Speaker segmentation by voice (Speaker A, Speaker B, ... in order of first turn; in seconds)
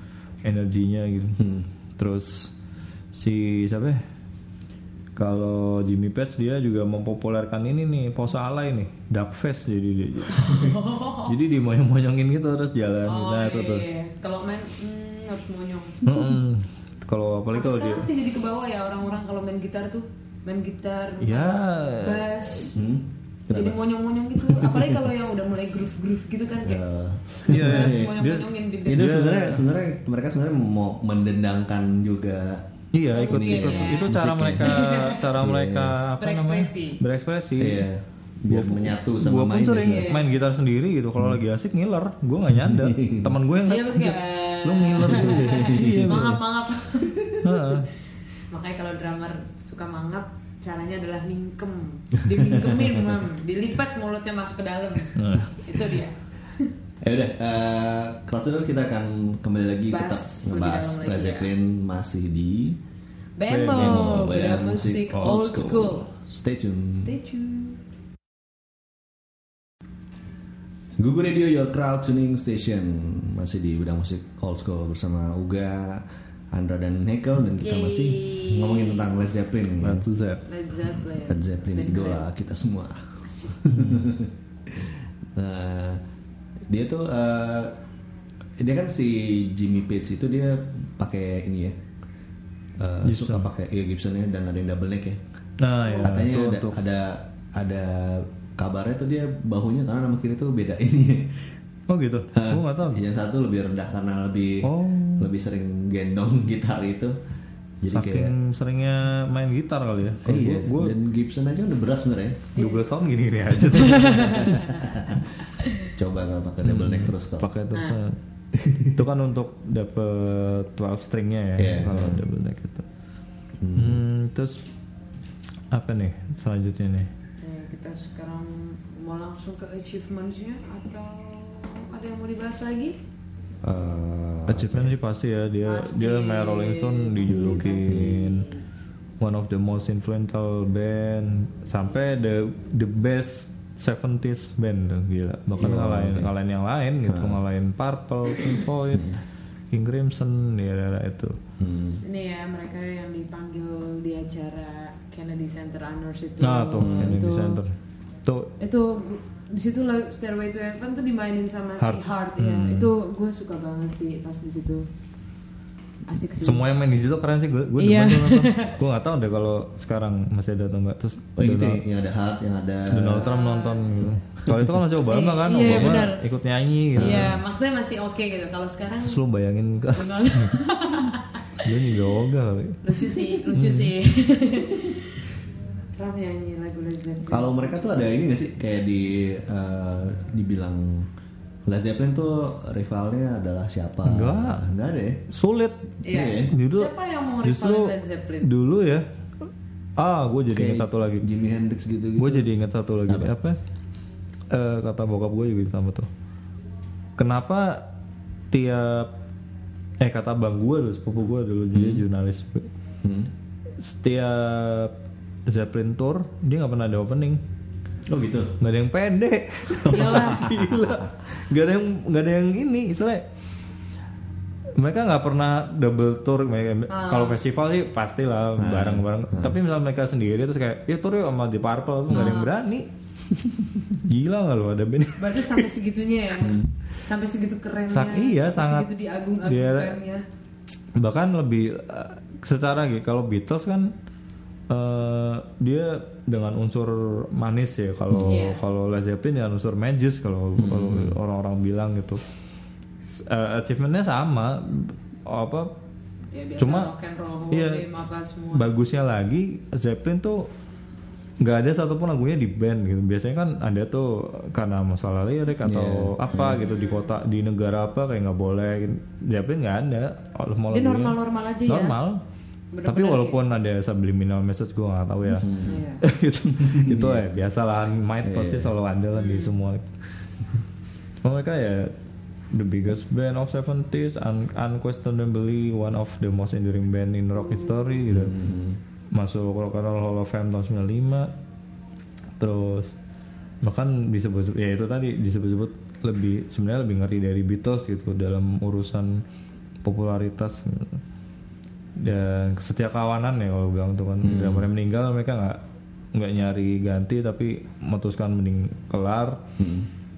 Speaker A: 0.4-1.4, 2.0-2.5, 3.1-4.0, 5.2-13.8, 16.0-18.1, 21.2-22.2, 27.5-29.7, 32.9-37.9, 38.5-46.4, 47.4-47.9, 55.1-55.5, 63.5-64.5, 65.1-65.8, 79.8-80.4, 83.7-84.1, 93.0-93.5, 95.6-96.8, 101.9-103.0, 104.6-105.3, 107.9-110.9, 112.5-114.6, 116.6-118.2, 118.9-122.9, 123.8-124.6, 125.7-127.1, 134.5-138.5, 139.2-151.3, 156.4-157.7, 158.2-158.5, 161.8-162.9, 166.4-171.8, 172.9-177.4, 179.0-183.9, 194.1-194.6, 195.3-201.3, 202.2-203.6, 204.5-206.1, 207.2-207.8, 208.5-209.1, 210.0-212.7, 213.8-214.9, 215.5-217.4, 218.6-223.2, 224.8-232.9, 233.9-235.7, 237.9-240.0, 240.9-243.9, 244.7-252.2, 253.1-255.7, 256.6-256.9, 257.5-257.9, 258.5-260.5, 261.4-272.2, 272.8-279.8, 281.2-281.9, 282.5-288.3, 289.1-291.3, 292.4-292.9, 293.6-299.2, 299.8-301.0, 302.0-305.6, 306.1-309.4
Speaker B: 1.4-1.7, 22.7-23.8, 24.4-25.0, 26.6-28.1, 28.9-32.7, 33.2-36.0, 37.6-40.1, 42.4-43.4, 45.1-46.3, 46.9-47.4, 52.3-53.1, 57.0-62.8, 63.7-67.1, 71.0-80.0, 81.2-86.0, 86.7-87.8, 88.6-91.7, 92.8-95.2, 96.0-101.6, 102.3-107.1, 107.8-108.3, 110.2-112.5, 114.0-117.5, 118.5-119.0, 121.6-122.2, 123.6-124.0, 133.6-134.9, 137.3-138.2, 145.6-146.3, 147.1-147.4, 148.9-149.2, 151.6-152.0, 156.8-157.2, 171.4-173.3, 174.4-174.7, 177.0-177.3, 187.3-191.1, 191.7-195.2, 196.1-196.5, 200.5-202.5, 203.1-203.3, 211.7-212.0, 213.0-213.3, 218.1-218.6, 219.7-221.1, 228.6-229.6, 236.3-236.7, 248.1-248.4, 250.6-251.2, 265.6-266.6, 275.4-275.8, 276.5-277.2, 278.2-278.7, 288.1-288.8, 304.2-304.7, 309.6-309.9
Speaker C: 10.3-11.3, 13.1-16.3, 17.5-22.8, 23.5-29.1, 33.1-35.2, 36.2-37.0, 39.8-40.2, 43.6-47.2, 48.5-56.7, 59.9-61.5, 63.4-66.1, 67.0-67.8, 80.4-82.3, 83.2-83.6, 95.8-96.2, 112.5-112.8, 113.7-114.9, 117.7-118.0, 127.4-133.0, 135.7-138.6, 151.9-157.6, 158.6-164.8, 166.1-166.7, 167.8-168.8, 173.1-174.1, 175.1-176.2, 176.9-179.2, 179.9-181.4, 182.8-185.2, 185.9-188.1, 196.0-198.5, 219.9-220.5, 226.9-227.4, 232.1-232.5, 235.2-240.2, 248.2-248.6, 256.3-258.7, 266.3-267.2, 270.7-272.0, 272.7-273.4, 275.5-276.0, 279.1-279.6